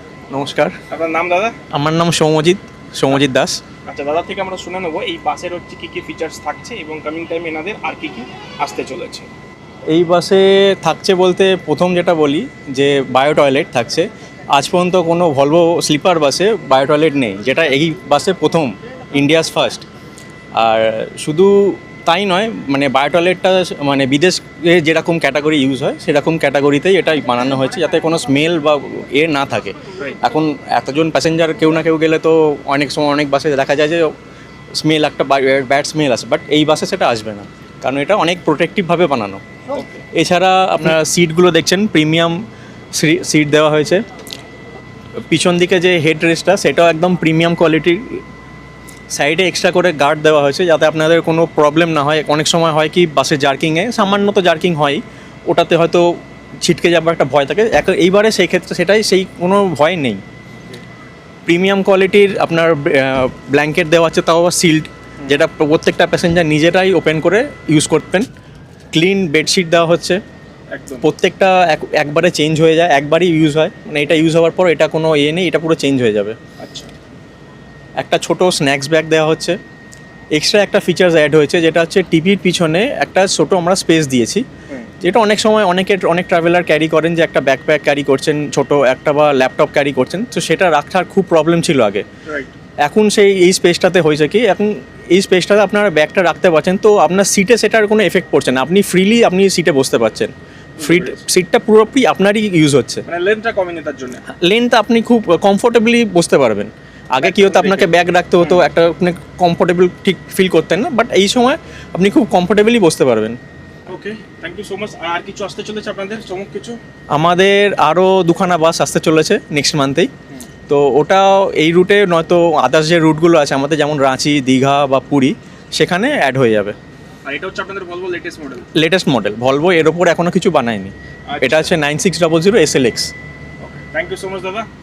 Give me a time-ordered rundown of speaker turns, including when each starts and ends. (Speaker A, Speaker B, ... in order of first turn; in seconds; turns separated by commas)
Speaker A: 0.3-0.8, Speaker B: 0.9-1.6, Speaker A: 1.7-3.6, Speaker B: 3.9-9.3, Speaker A: 9.9-19.9, Speaker A: 20.6-34.1, Speaker A: 34.8-39.4, Speaker B: 39.7-40.0, Speaker A: 40.1-42.4, Speaker A: 42.9-44.0, Speaker A: 45.3-48.2, Speaker A: 49.1-60.2, Speaker A: 61.5-68.3, Speaker A: 68.9-70.2, Speaker B: 70.7-71.1, Speaker A: 71.0-76.3, Speaker B: 76.6-76.9, Speaker A: 78.0-79.6, Speaker A: 80.3-84.4, Speaker A: 85.0-92.0, Speaker B: 92.2-92.5, Speaker A: 92.8-103.0, Speaker B: 100.8-101.2, Speaker B: 103.0-104.2, Speaker A: 104.3-113.4, Speaker B: 107.2-108.7, Speaker B: 113.9-116.8, Speaker A: 117.1-120.1, Speaker A: 120.7-126.7, Speaker B: 127.3-128.7, Speaker A: 128.8-133.1, Speaker B: 131.3-131.7, Speaker B: 133.6-134.7